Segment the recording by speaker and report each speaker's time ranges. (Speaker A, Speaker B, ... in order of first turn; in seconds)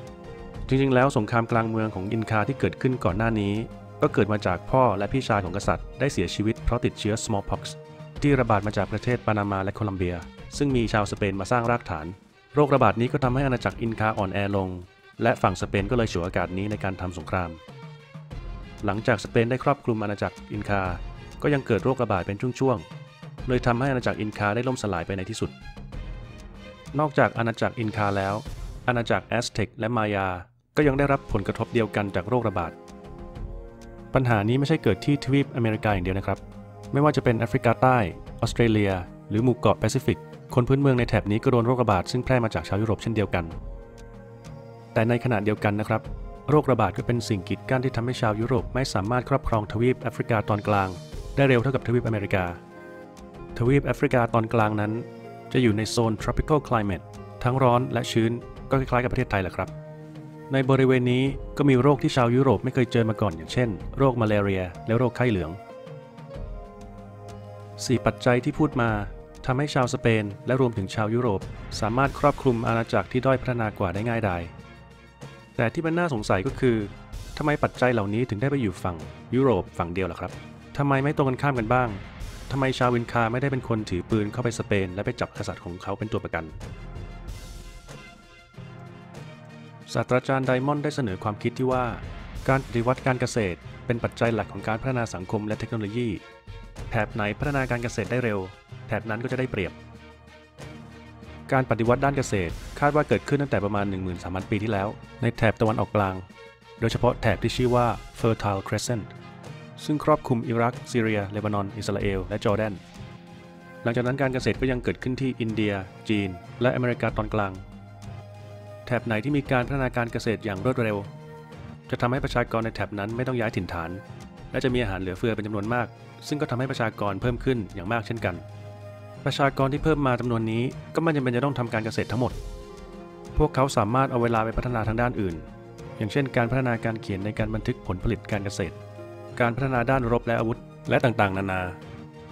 Speaker A: 0.7-17.6, 18.8-22.9, 23.5-25.5, 26.9-32.8, 34.1-43.6, 44.9-52.6, 53.5-59.7, 60.5-65.6, 67.8-74.5, 75.6-86.6, 89.9-96.2, 96.9-99.8, 101.5-106.3, 106.8-109.1, 109.8-112.8, 113.8-117.6, 118.9-121.1, 121.9-128.5, 129.2-132.4, 133.3-135.5, 136.0-138.8, 139.4-141.8